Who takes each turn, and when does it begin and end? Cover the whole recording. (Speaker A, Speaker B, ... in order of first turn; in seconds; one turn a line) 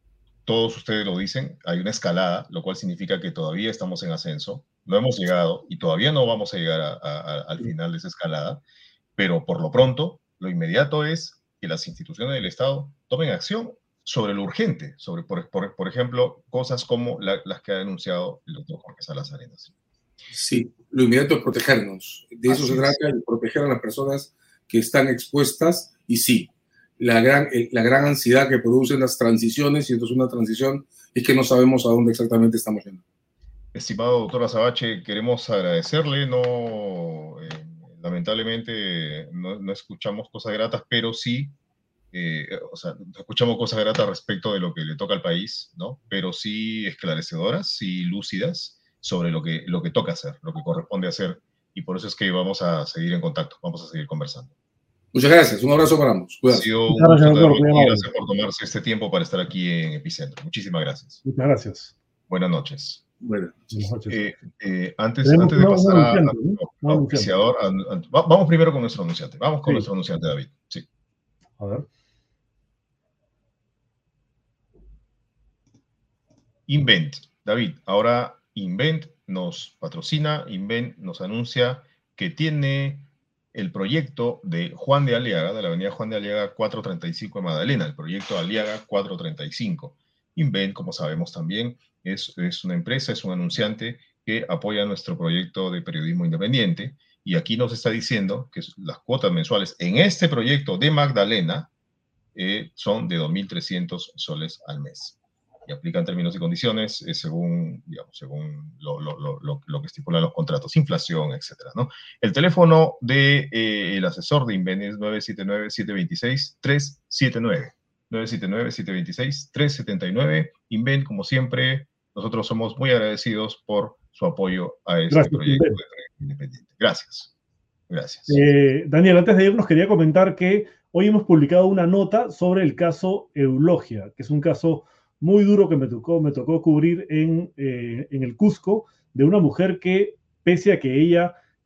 Speaker A: 0.4-8.6
Speaker A: 9.2-19.7
Speaker B: 20.3-33.0
Speaker A: 22.5-23.0
Speaker A: 33.7-41.5
Speaker A: 42.1-54.5
Speaker B: 55.1-56.7
Speaker A: 56.5-61.2
Speaker C: 56.9-58.1
Speaker C: 61.2-61.9
Speaker A: 62.3-63.0
Speaker B: 63.2-63.7
Speaker C: 63.7-64.2
Speaker A: 64.1-70.8
Speaker C: 65.2-67.3
Speaker C: 71.6-71.8
Speaker A: 76.7-101.7
Speaker A: 102.3-127.3
Speaker C: 125.1-125.8
Speaker A: 127.9-128.4
Speaker C: 128.3-141.3